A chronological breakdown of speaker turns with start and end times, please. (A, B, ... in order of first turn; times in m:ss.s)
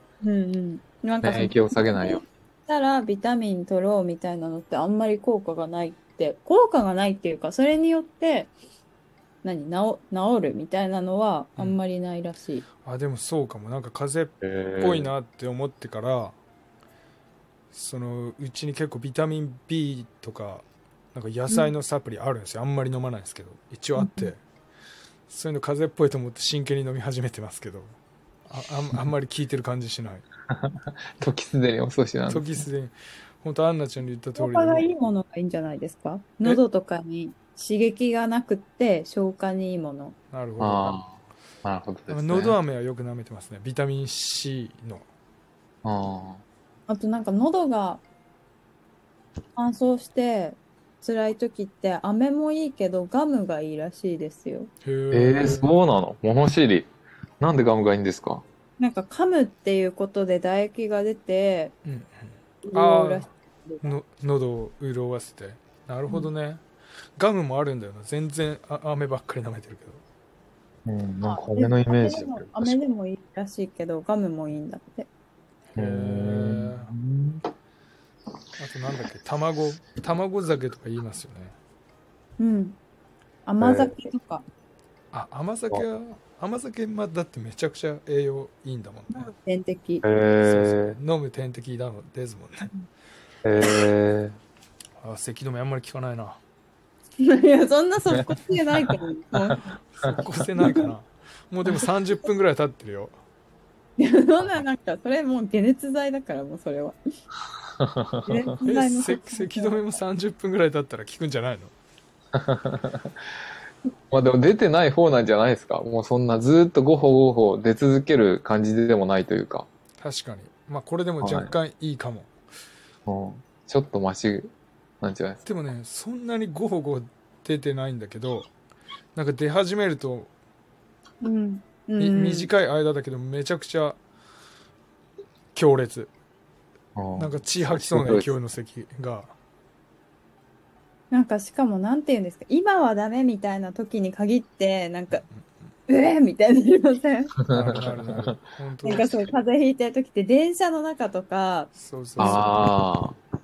0:00.2-0:08.5 A
0:01.2-0:02.2 B
0:09.4-0:12.6 A
0:12.8-0:16.4 C
0:14.4-0:15.1 B
0:17.7-0:24.4 C
0:24.0-0:24.3 A
0:25.3-0:27.9 C
0:28.5-0:30.2 C
0:31.2-0:32.6 B
0:32.3-0:34.9 C
0:34.4-0:40.1 A
0:40.3-0:41.0 C
0:40.6-0:42.6 B
0:42.1-0:45.0 C
0:45.8-0:46.4 B
0:46.9-0:48.0 A
0:49.5-0:54.7 A
0:54.8-0:55.7 C
0:55.1-0:56.9 B
0:57.4-0:58.4 B
0:58.8-1:01.7 A
1:01.8-1:03.3 C
1:02.6-1:03.9 A
1:03.8-1:06.6 C
1:07.2-1:10.0 C
1:10.8-1:12.8 B
1:11.2-1:15.1 A
1:15.7-1:16.9 C
1:15.8-1:17.4 B
1:18.6-1:21.5 C
1:22.4-1:22.8 A
1:23.4-1:24.4 A
1:23.6-1:24.0 B
1:25.1-1:29.3 C
1:29.1-1:30.0 A
1:30.0-1:31.0 B
1:30.4-1:32.7 C
1:33.4-1:34.4 B
1:35.0-1:36.4 C
1:37.2-1:39.7 A
1:39.9-1:43.1 C
1:40.6-1:40.9 A
1:44.0-1:47.0 A
1:47.8-1:48.4 B
1:48.2-1:49.9 A
1:48.6-1:51.7 C
1:52.3-1:53.1 B
1:54.1-1:59.7 B
2:00.0-2:02.3 C
2:01.2-2:01.5 B
2:03.1-2:05.4 B
2:05.4-2:08.5 C
2:09.1-2:10.3 C
2:11.2-2:12.5 A
2:12.0-2:14.0 C
2:15.5-2:16.1 C
2:17.0-2:18.3 B
2:17.2-2:19.3 C
2:21.1-2:25.2 A
2:25.9-2:27.3 A
2:27.5-2:29.2 C
2:27.5-2:28.4 B
2:28.8-2:32.4 A
2:31.7-2:32.6 C
2:32.2-2:33.2 B